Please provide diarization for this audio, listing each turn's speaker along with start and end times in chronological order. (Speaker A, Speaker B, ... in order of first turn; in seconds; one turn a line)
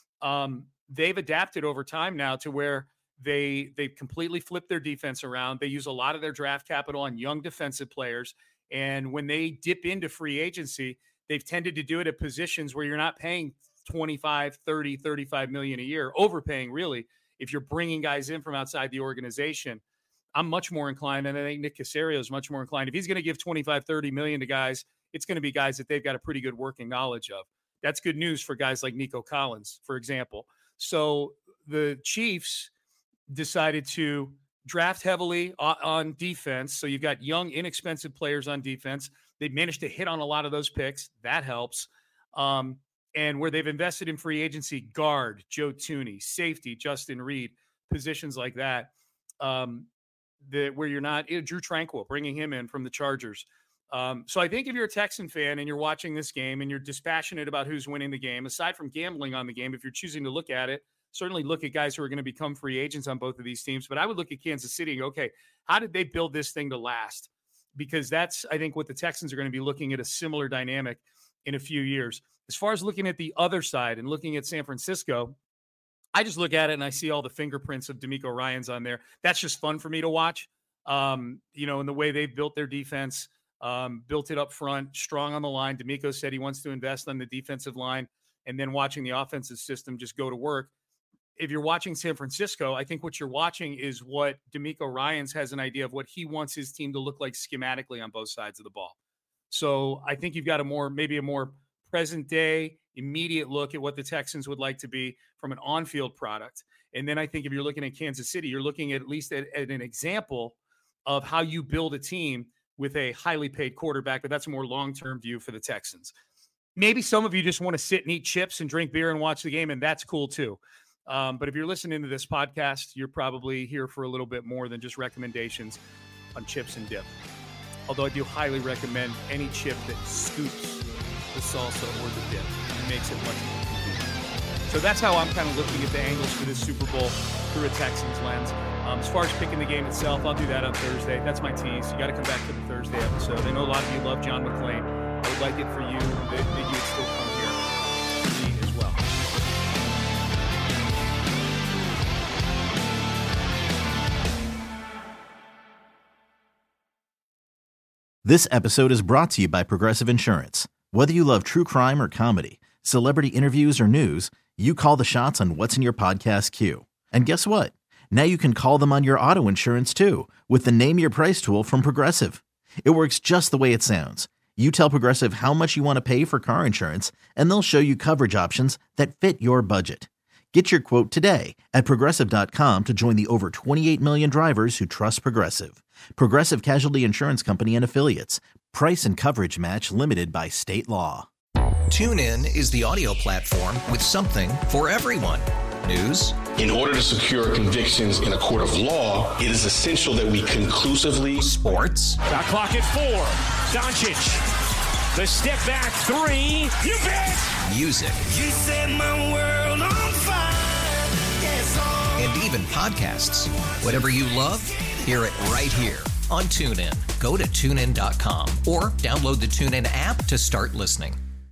Speaker A: 0.2-19.8
Speaker A: 20.3-32.7
Speaker A: 33.3-49.9
Speaker A: 50.4-75.3
Speaker A: 76.1-90.7
Speaker A: 91.4-98.9
Speaker A: 99.5-116.1
Speaker A: 116.8-125.8
Speaker A: 126.3-127.1
Speaker A: 127.9-134.1
Speaker A: 134.7-147.6
Speaker A: 148.2-149.0
Speaker B: 158.2-191.3
Speaker C: 191.9-196.4
Speaker D: 196.6-201.5
Speaker C: 201.4-202.2
Speaker E: 202.2-204.4
Speaker E: 205.1-207.6
Speaker C: 207.6-208.3
Speaker F: 208.3-212.0
Speaker C: 212.1-221.2